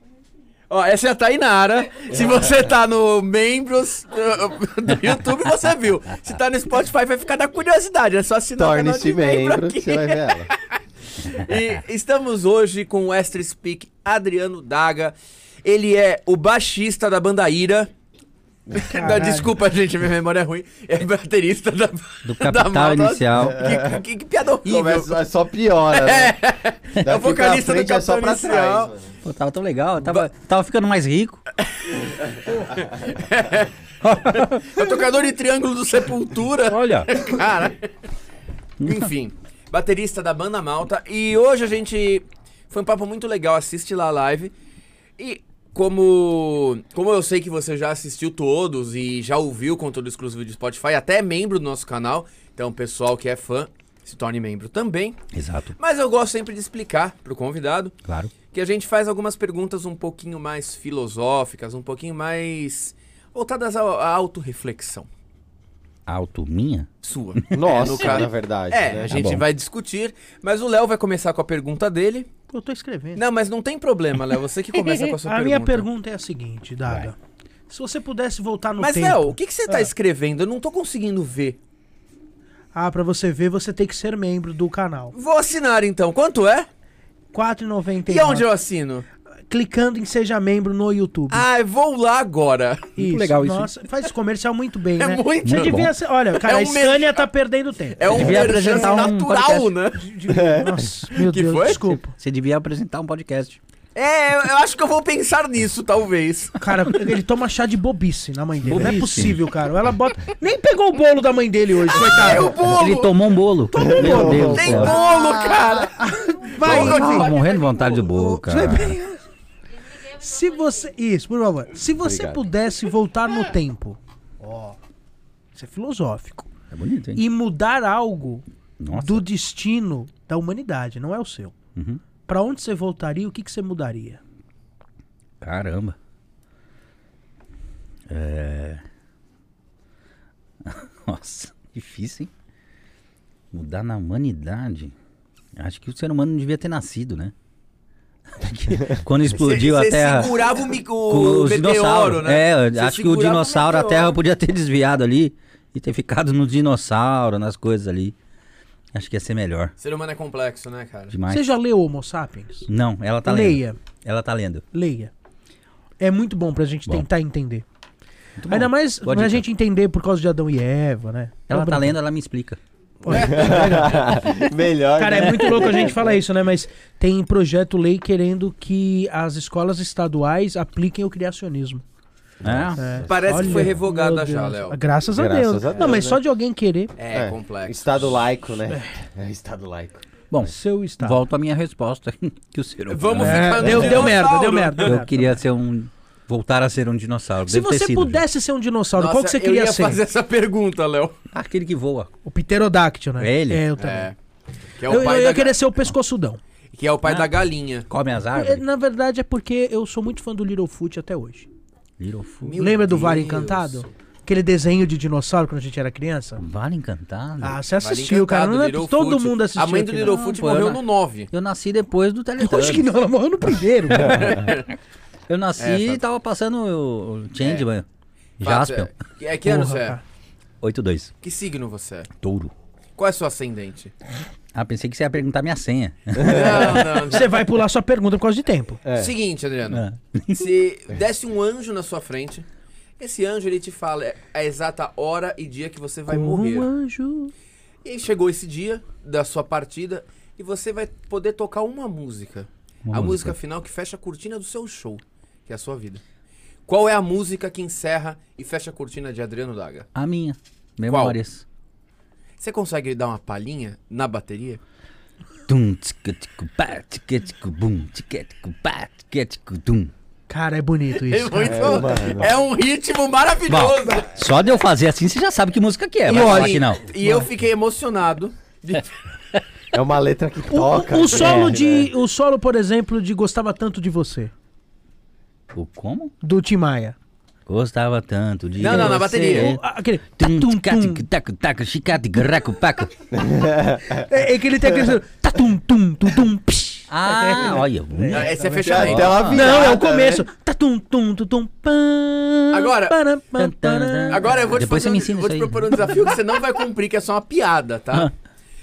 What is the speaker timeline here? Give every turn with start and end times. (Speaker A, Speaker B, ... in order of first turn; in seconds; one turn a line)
Speaker A: 0.7-17.9
Speaker B: 8.6-10.5
Speaker A: 18.7-25.2
Speaker C: 18.9-19.5
Speaker D: 22.2-23.6
Speaker B: 23.4-24.0
Speaker B: 24.6-26.3
Speaker A: 25.9-28.9
Speaker B: 26.9-29.1
Speaker D: 29.2-31.4
Speaker A: 31.7-37.9
Speaker D: 34.0-34.7
Speaker D: 36.7-37.1
Speaker A: 38.8-44.5
Speaker A: 45.2-55.2
Speaker D: 55.3-55.7
Speaker A: 55.8-58.0
Speaker D: 58.0-58.3
Speaker A: 58.5-65.1
Speaker D: 66.1-66.9
Speaker A: 67.0-72.3
Speaker B: 67.5-69.2
Speaker D: 69.1-69.4
Speaker C: 72.5-73.2
Speaker A: 73.1-75.9
Speaker C: 74.9-77.2
Speaker C: 77.7-79.9
Speaker A: 78.8-81.6
Speaker C: 82.7-85.1
Speaker A: 85.1-86.7
Speaker C: 87.3-88.5
Speaker A: 88.1-89.0
Speaker C: 89.5-91.4
Speaker A: 91.3-93.0
Speaker C: 93.0-99.3
Speaker D: 93.0-93.7
Speaker A: 95.0-95.8
Speaker D: 95.4-95.9
Speaker A: 96.3-97.3
Speaker A: 97.9-100.1
Speaker D: 98.1-99.8
Speaker C: 99.9-102.1
Speaker A: 101.1-101.8
Speaker D: 101.7-103.6
Speaker A: 103.9-106.7
Speaker C: 106.6-112.7
Speaker D: 108.6-109.5
Speaker A: 111.8-118.8
Speaker D: 112.3-115.0
Speaker B: 113.8-115.6
Speaker C: 115.8-117.3
Speaker D: 116.6-119.0
Speaker C: 118.5-119.2
Speaker C: 120.1-124.8
Speaker B: 122.0-122.4
Speaker C: 125.5-126.5
Speaker D: 126.7-127.2
Speaker C: 127.1-131.5
Speaker D: 128.8-129.2
Speaker D: 131.8-132.0
Speaker C: 132.2-134.2
Speaker D: 135.4-135.9
Speaker D: 138.1-138.8
Speaker D: 140.6-142.3
Speaker D: 143.5-144.9
Speaker D: 145.6-147.3
Speaker D: 148.4-150.3
Speaker A: 149.3-154.2
Speaker D: 151.1-158.1
Speaker D: 158.9-159.7
Speaker A: 159.8-161.1
Speaker D: 161.1-161.5
Speaker C: 161.3-162.7
Speaker D: 162.7-164.6
Speaker C: 163.2-163.8
Speaker C: 164.7-165.1
Speaker C: 166.0-167.6
Speaker D: 168.4-169.4
Speaker C: 168.5-171.9
Speaker D: 171.5-172.6
Speaker C: 173.0-174.4
Speaker B: 173.1-176.1
Speaker C: 175.0-181.8
Speaker D: 175.2-175.9
Speaker B: 182.4-183.8
Speaker D: 182.4-182.8
Speaker C: 182.8-186.9
Speaker A: 183.0-184.8
Speaker B: 185.1-186.2
Speaker A: 187.0-188.2
Speaker B: 187.1-190.0
Speaker D: 190.3-194.1
Speaker C: 190.4-191.2
Speaker A: 192.9-195.0
Speaker C: 193.2-195.1
Speaker D: 194.8-198.2
Speaker C: 197.5-200.0
Speaker A: 198.9-201.2
Speaker D: 201.3-202.1
Speaker C: 202.2-204.1
Speaker D: 203.2-203.6
Speaker A: 203.8-204.2
Speaker A: 204.8-205.6
Speaker C: 204.9-206.4
Speaker A: 206.7-207.9
Speaker D: 207.9-208.7
Speaker C: 208.3-211.5
Speaker D: 212.0-212.6
Speaker A: 212.4-213.9
Speaker C: 212.6-216.4
Speaker D: 216.4-217.6
Speaker C: 217.4-220.2
Speaker A: 217.8-221.3
Speaker D: 220.1-222.9
Speaker C: 222.4-224.4
Speaker A: 223.9-224.7
Speaker D: 225.3-227.8
Speaker A: 225.6-226.0
Speaker A: 227.4-227.7
Speaker D: 228.4-228.9
Speaker A: 228.4-230.0
Speaker C: 229.4-230.0
Speaker D: 230.6-231.1
Speaker A: 231.2-232.1
Speaker D: 232.2-232.5
Speaker A: 232.9-233.9
Speaker D: 234.5-237.0
Speaker A: 236.2-237.4
Speaker C: 237.1-238.8
Speaker B: 238.8-239.1
Speaker A: 238.9-242.4
Speaker D: 239.7-240.5
Speaker A: 243.0-246.7
Speaker C: 246.1-247.3
Speaker A: 247.8-256.0
Speaker D: 252.9-253.3
Speaker A: 256.6-259.9
Speaker D: 259.9-261.4
Speaker A: 260.9-261.2
Speaker A: 262.4-264.6
Speaker D: 265.5-269.9
Speaker C: 270.3-272.0
Speaker A: 270.9-274.1
Speaker B: 271.4-272.3
Speaker D: 273.5-276.8
Speaker A: 276.1-278.9
Speaker C: 277.0-277.3
Speaker B: 279.7-281.9
Speaker C: 280.5-284.3
Speaker D: 285.5-286.1
Speaker C: 286.2-286.9
Speaker D: 287.5-292.9
Speaker A: 288.6-289.5
Speaker C: 288.6-291.0
Speaker B: 293.1-293.9
Speaker C: 293.9-304.4
Speaker D: 296.9-299.5
Speaker A: 298.1-299.7
Speaker B: 298.5-300.2
Speaker A: 302.5-303.0
Speaker D: 303.4-305.8
Speaker A: 304.1-308.1